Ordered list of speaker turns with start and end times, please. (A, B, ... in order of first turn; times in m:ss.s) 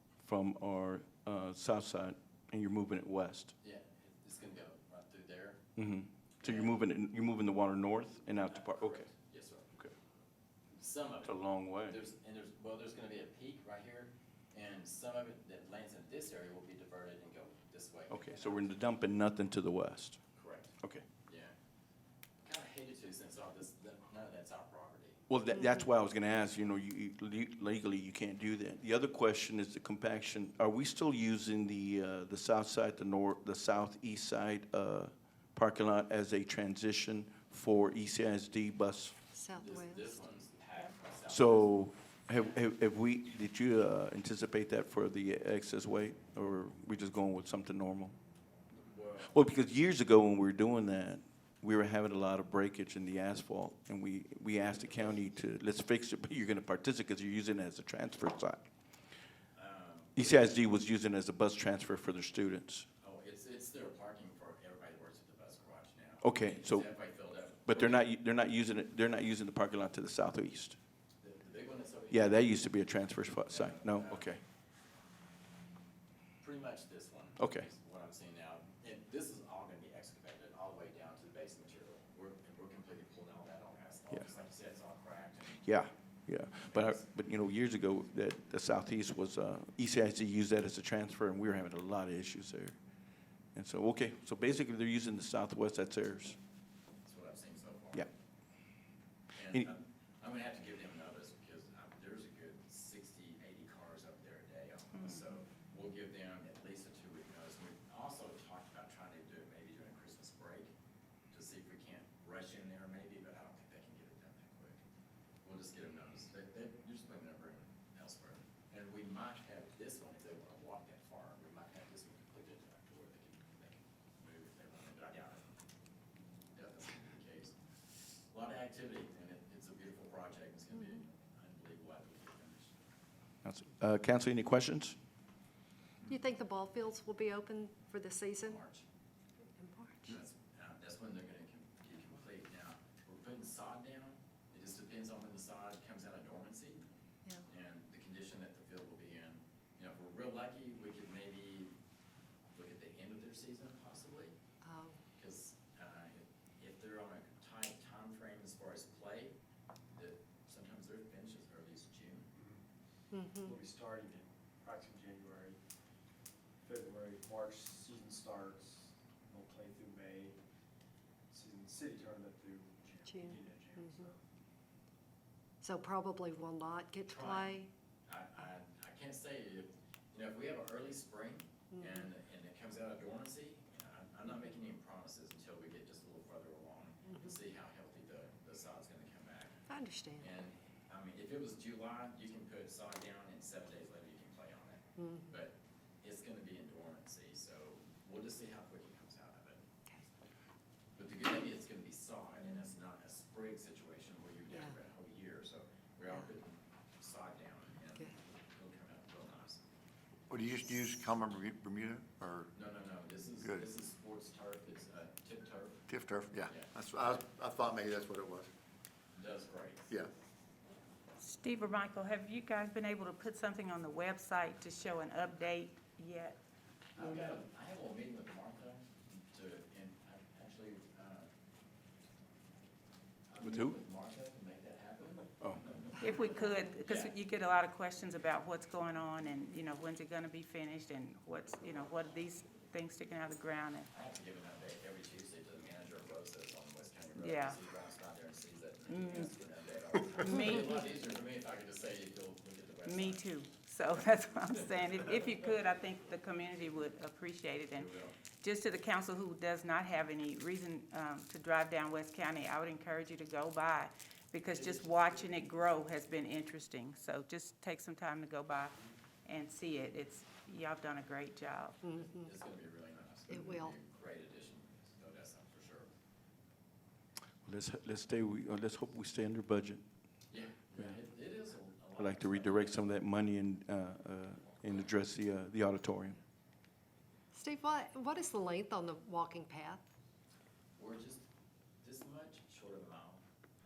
0:00.2-0:03.5 A
0:03.6-0:05.7 B
0:05.8-0:09.1 A
0:06.4-0:06.8 B
0:08.4-0:09.7 B
0:10.8-0:18.8 B
0:11.2-0:12.0 A
0:18.1-0:20.2 A
0:20.4-0:21.5 B
0:20.8-0:21.1 A
0:22.4-0:25.2 B
0:25.3-0:39.2 A
0:25.6-0:25.8 C
0:39.3-0:40.2 C
0:39.6-0:42.6 B
0:41.3-0:48.2 A
0:48.7-0:49.3 B
0:49.3-0:58.7 A
0:59.5-1:00.3 B
1:00.2-1:02.9 A
1:03.0-1:08.0 B
1:06.2-1:06.9 A
1:07.7-1:10.8 A
1:11.2-1:12.4 B
1:12.1-1:14.4 A
1:13.5-1:14.3 B
1:16.4-1:25.7 B
1:17.4-1:17.7 A
1:25.6-1:32.8 A
1:26.7-1:27.0 B
1:33.6-1:36.4 A
1:37.0-1:38.1 B
1:39.4-1:50.7 B
1:51.3-1:54.8 B
1:55.4-2:05.4 B
2:06.6-2:12.8 B
2:13.4-2:15.0 A
2:16.1-2:18.6 C
2:18.4-2:18.8 B
2:19.6-2:20.2 C
2:20.1-2:26.8 B
2:27.5-2:31.7 B
2:32.5-2:34.3 B
2:34.6-2:35.0 C
2:35.2-2:39.4 B
2:39.9-2:42.3 B
2:42.4-2:42.6 D
2:43.1-2:43.6 C
2:43.4-2:45.6 D
2:46.6-2:50.4 D
2:51.3-2:54.2 D
2:53.1-2:54.1 C
2:55.6-2:57.7 C
2:57.1-3:09.6 B
3:01.8-3:02.0 C
3:07.1-3:07.3 C
3:09.7-3:10.3 C
3:10.2-3:19.6 B
3:15.0-3:15.3 C
3:21.0-3:29.6 B
3:24.5-3:24.8 C
3:30.3-3:32.5 E
3:32.5-3:36.7 B
3:35.9-3:38.5 E
3:39.2-3:39.9 B
3:41.2-3:46.4 F
3:47.0-3:51.3 B
3:47.0-3:47.4 F
3:53.3-3:57.1 B
3:53.4-3:53.8 A
3:56.0-4:03.9 F
4:03.9-4:13.3 B
4:07.2-4:07.6 F
4:08.9-4:09.3 F
4:10.2-4:10.8 F
4:12.8-4:31.8 F
4:17.8-4:18.2 B
4:24.5-4:25.4 B
4:31.8-4:32.3 C
4:31.9-4:35.9 B
4:33.3-4:33.8 C
4:37.4-4:39.8 A
4:40.3-4:43.0 B
4:42.0-4:46.2 A
4:47.3-4:49.8 C
4:50.8-4:51.2 B
4:51.8-4:53.2 B